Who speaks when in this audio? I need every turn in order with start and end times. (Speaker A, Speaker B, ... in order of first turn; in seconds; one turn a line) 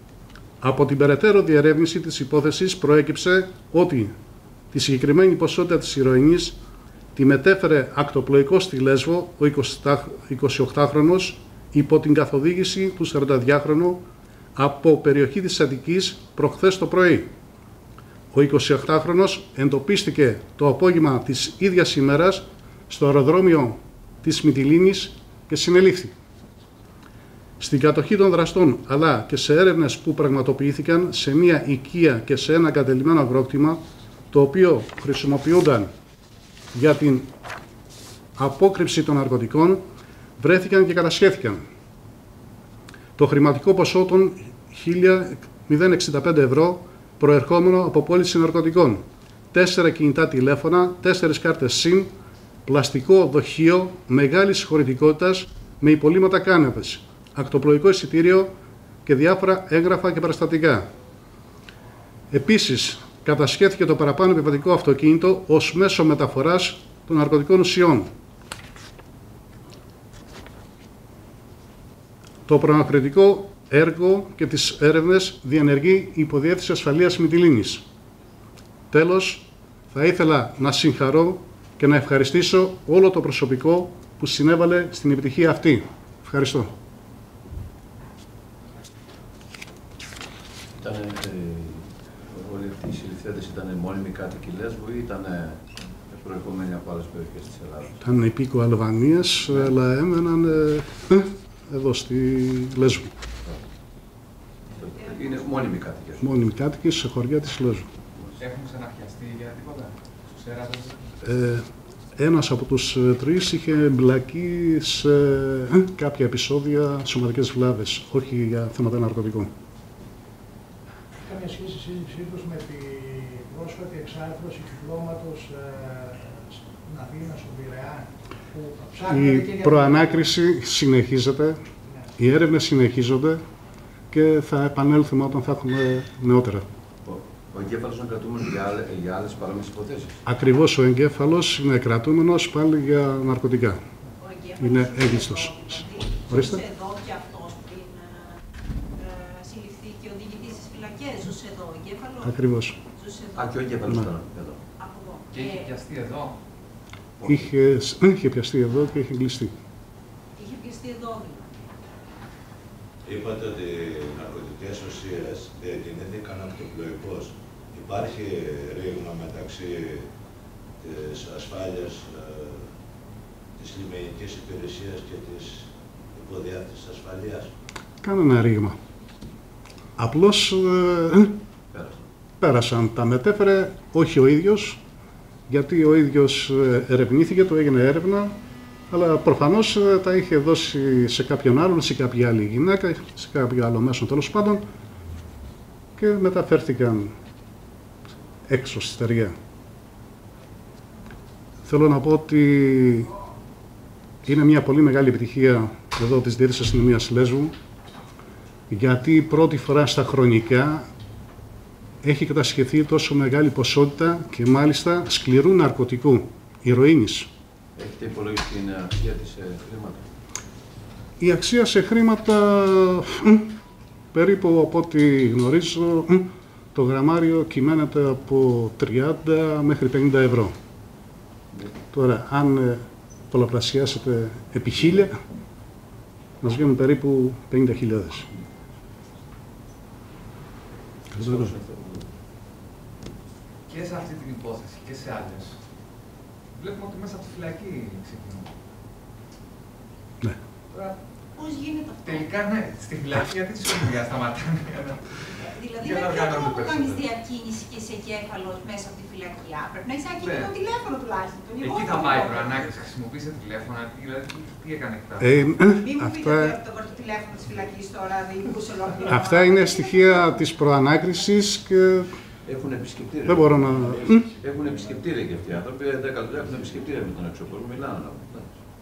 Speaker A: 0.6-4.1
Speaker A: 4.7-6.6
Speaker A: 7.1-14.0
Speaker A: 14.6-17.3
Speaker A: 18.3-26.1
Speaker A: 27.6-33.8
Speaker A: 34.3-35.9
Speaker A: 36.7-37.3
Speaker A: 38.4-39.8
Speaker A: 40.4-41.6
Speaker A: 43.2-52.1
Speaker A: 52.6-58.5
Speaker A: 59.0-60.9
Speaker A: 62.3-68.1
Speaker A: 72.5-77.8
Speaker A: 78.9-86.7
Speaker B: 90.8-98.0
Speaker A: 98.0-103.1
Speaker B: 104.7-106.3
Speaker A: 106.2-107.9
Speaker C: 108.4-111.0
Speaker A: 111.2-119.5
Speaker D: 121.2-130.2
Speaker A: 129.1-131.6
Speaker A: 132.2-133.4
Speaker A: 134.1-136.7
Speaker B: 137.0-140.2
Speaker A: 140.2-143.8
Speaker E: 144.2-148.4
Speaker A: 144.6-146.7
Speaker E: 149.0-152.2
Speaker A: 152.2-152.8
Speaker E: 153.0-153.5
Speaker B: 153.3-154.6
Speaker E: 154.8-155.6
Speaker C: 155.3-156.4
Speaker B: 157.2-157.5
Speaker A: 157.2-159.5
Speaker E: 160.4-161.7
Speaker F: 163.0-170.1
Speaker F: 170.8-172.7
Speaker F: 173.6-177.5
Speaker A: 178.0-178.8
Speaker A: 180.0-181.4
Speaker B: 181.7-182.1
Speaker A: 182.4-184.8
Speaker A: 185.5-188.3
Speaker A: 188.9-194.7
Speaker A: 196.0-197.1
Speaker A: 198.5-199.3
Speaker A: 201.6-203.1
Speaker A: 204.2-207.5
Speaker A: 208.7-210.9
Speaker A: 212.0-217.3
Speaker B: 217.8-220.0
Speaker A: 221.2-223.5
Speaker A: 224.1-230.5
Speaker A: 231.9-235.2
Speaker A: 236.4-238.3
Speaker B: 241.1-242.1
Speaker A: 241.1-241.5
Speaker C: 243.7-245.6
Speaker C: 246.6-248.5
Speaker E: 251.4-252.0
Speaker C: 252.0-257.1
Speaker E: 255.5-262.5
Speaker C: 260.1-260.6
Speaker C: 261.6-265.5
Speaker A: 265.2-266.6
Speaker E: 265.8-270.0
Speaker A: 269.0-272.1
Speaker B: 272.4-278.6
Speaker A: 273.2-274.3